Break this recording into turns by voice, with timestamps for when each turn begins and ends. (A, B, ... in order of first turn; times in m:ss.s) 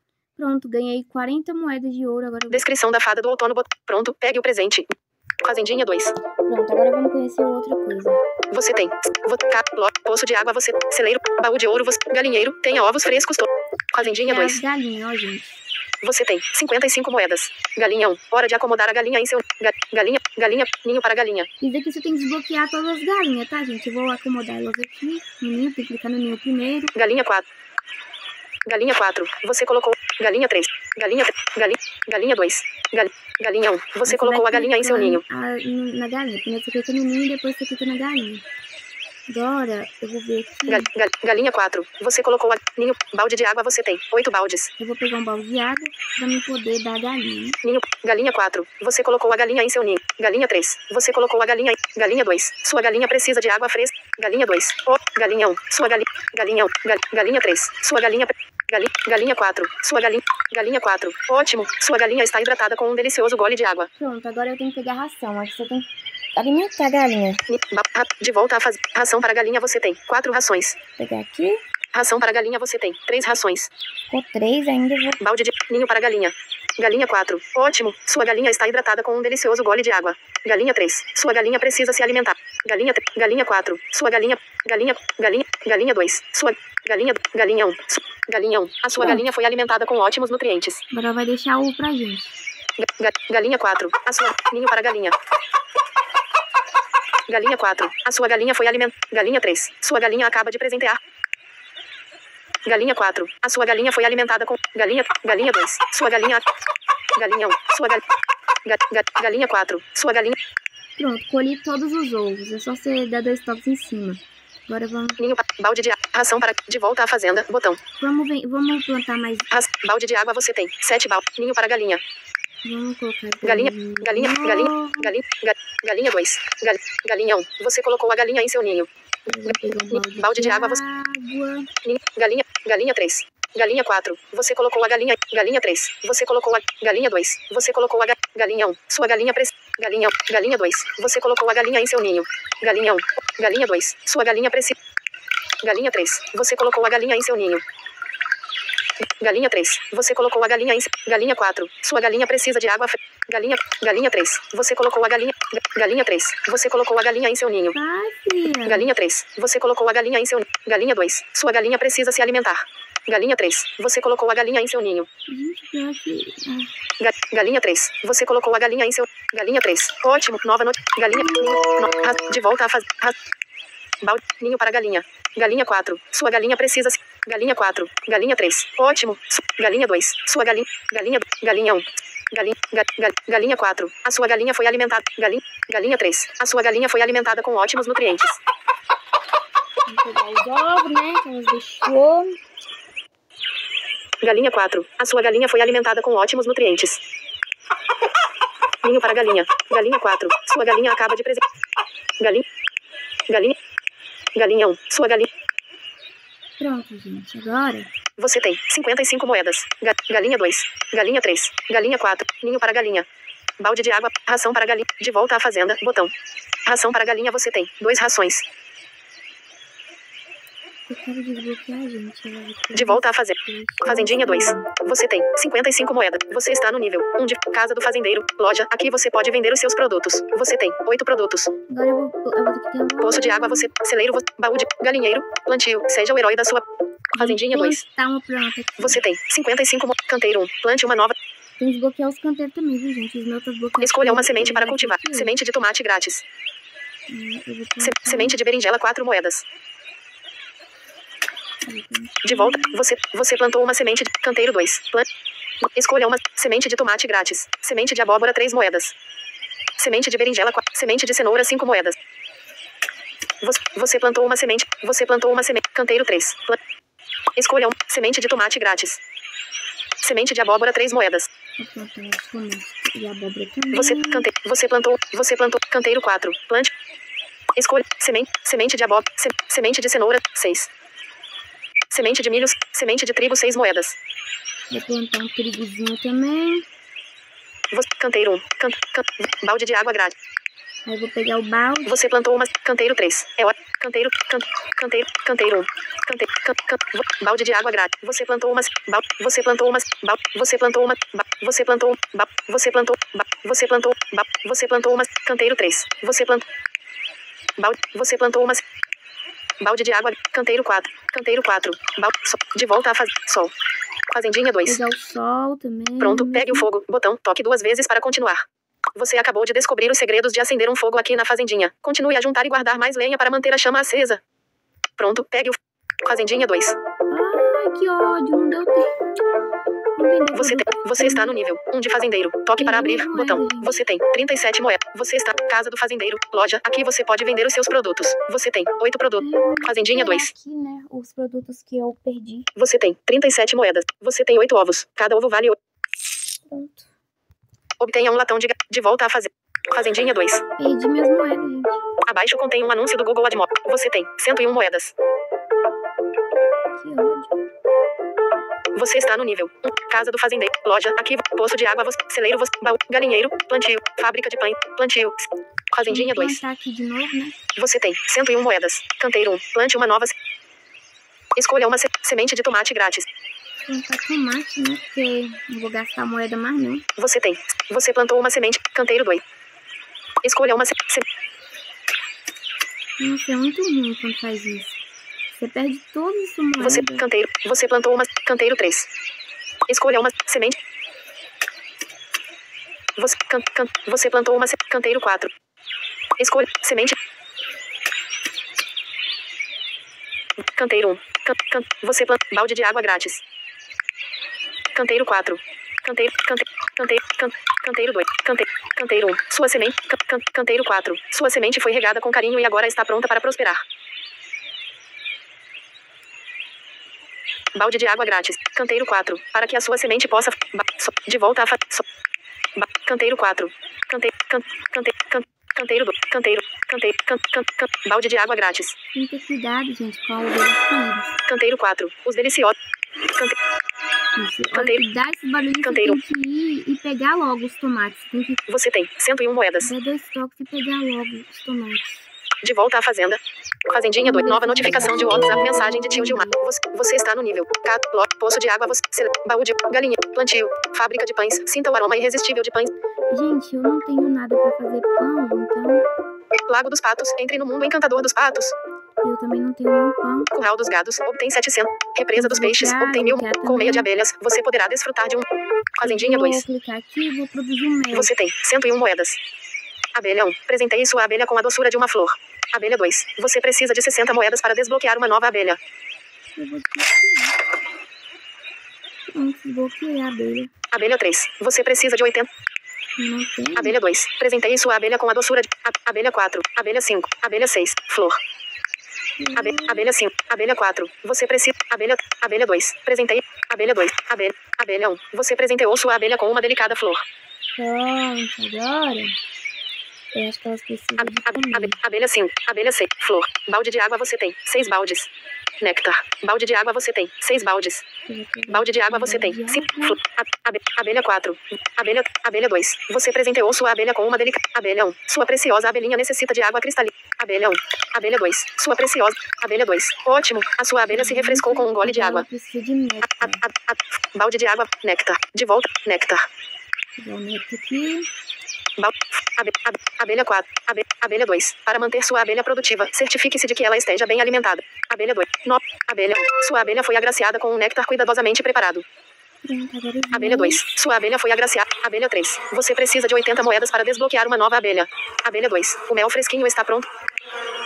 0:00.4-0:02.6 A
0:02.5-0:06.1 B
0:06.4-0:08.2 A
0:08.5-0:14.6 B
0:14.0-0:15.6 A
0:16.0-0:21.5 B
0:21.6-0:26.9 A
0:26.9-0:27.4 B
0:28.6-0:35.2 B
0:34.0-0:38.4 A
0:39.3-0:40.9 A
0:40.7-0:44.7 B
0:44.8-0:47.6 A
0:47.6-1:03.9 B
1:04.0-1:07.4 A
1:07.5-1:10.8 B
1:11.0-1:11.6 A
1:11.9-1:13.7 B
1:14.1-1:15.2 A
1:15.2-1:30.8 B
1:30.9-1:32.4 A
1:32.8-1:35.2 B
1:37.3-1:41.0 B
1:42.6-1:46.4 B
1:47.2-1:48.0 B
1:48.6-1:50.4 B
1:51.0-1:55.2 A
1:55.2-1:57.8 B
1:58.0-1:59.5 A
1:59.5-2:02.0 B
2:02.6-2:05.1 A
2:03.4-2:08.9 B
2:09.3-2:11.7 A
2:09.5-2:10.8 B
2:11.8-2:24.8 B
2:25.6-2:27.6 B
2:29.0-2:37.8 B
2:37.7-2:38.9 A
2:38.6-2:45.1 B
2:45.3-2:46.7 A
2:47.0-2:53.2 B
2:54.0-3:08.4 B
3:09.9-3:12.4 A
3:14.2-3:17.0 B
3:18.8-3:21.4 B
3:22.2-3:22.4 B
3:23.3-3:23.6 B
3:24.3-3:25.3 B
3:26.6-3:27.9 A
3:28.2-3:33.1 B
3:33.6-3:36.1 B
3:36.6-3:38.4 B
3:40.9-3:44.7 A
3:42.7-3:51.5 B
3:51.7-3:53.7 A
3:53.0-3:57.8 B
3:57.1-3:59.0 A
3:58.8-4:01.2 B
4:01.6-4:05.3 A
4:03.8-4:06.2 B
4:07.1-4:08.4 A
4:07.8-4:09.4 B
4:11.6-4:12.8 A
4:12.2-4:15.1 B
4:15.6-4:18.9 B
4:19.8-4:22.0 B
4:23.4-4:26.6 B
4:27.4-4:29.0 B
4:30.0-4:31.3 B
4:31.6-4:34.3 A
4:33.7-4:36.7 B
4:37.6-4:40.7 B
4:41.9-4:44.0 B
4:44.7-4:46.6 A
4:47.7-4:50.2 B
4:50.8-4:52.0 A
4:51.8-5:06.4 B
5:07.6-5:08.6 B
5:09.6-5:13.5 B
5:14.1-5:14.8 B
5:14.6-5:16.7 A
5:16.0-5:24.2 B
5:25.0-5:26.8 B
5:27.1-5:28.9 A
5:30.0-5:31.3 A
5:30.3-5:40.3 B
5:32.6-5:33.8 A
5:39.2-5:42.5 A
5:42.6-5:45.6 B
5:46.5-5:46.9 A
5:47.8-5:50.4 B
5:50.6-5:51.8 A
5:52.0-5:54.9 B
5:56.8-5:57.4 A
5:58.7-6:06.4 B
6:05.9-6:07.4 A
6:07.6-6:10.2 B
6:11.4-6:13.1 B
6:13.7-6:16.8 A
6:17.0-6:19.2 B
6:20.2-6:21.0 B
6:23.0-6:24.8 A
6:25.3-6:27.0 A
6:26.6-6:28.9 B
6:29.7-6:30.6 B
6:33.0-6:35.3 B
6:36.2-6:37.0 B
6:40.4-6:43.2 B
6:44.7-6:53.6 B
6:57.5-7:01.9 B
7:02.6-7:08.8 B
7:08.9-7:11.1 A
7:11.2-7:12.6 B
7:13.1-7:13.4 B
7:14.2-7:18.4 A
7:14.5-7:14.8 B
7:15.6-7:16.0 B
7:18.5-7:19.7 B
7:19.6-7:22.1 A
7:22.4-7:32.7 B
7:24.0-7:26.4 A
7:33.1-7:35.8 A
7:36.5-7:38.5 B
7:39.0-7:40.3 A
7:40.3-7:46.4 B
7:42.1-7:43.9 A
7:45.8-7:48.1 A
7:47.9-7:49.2 B
7:49.9-7:55.6 B
7:56.3-7:57.4 A
7:59.1-8:00.5 A
8:00.7-8:02.3 B
8:03.0-8:03.8 A
8:03.6-8:08.2 B
8:09.2-8:09.9 A
8:09.4-8:17.0 B
8:17.5-8:19.2 A
8:20.1-8:21.8 A
8:21.0-8:25.1 B
8:25.6-8:27.8 B
8:28.0-8:30.0 A
8:28.5-8:42.2 B
8:40.9-8:43.4 A
8:43.0-8:46.3 B
8:47.0-8:48.1 A
8:48.8-8:58.8 B
8:59.4-9:00.8 A
9:00.1-9:06.9 B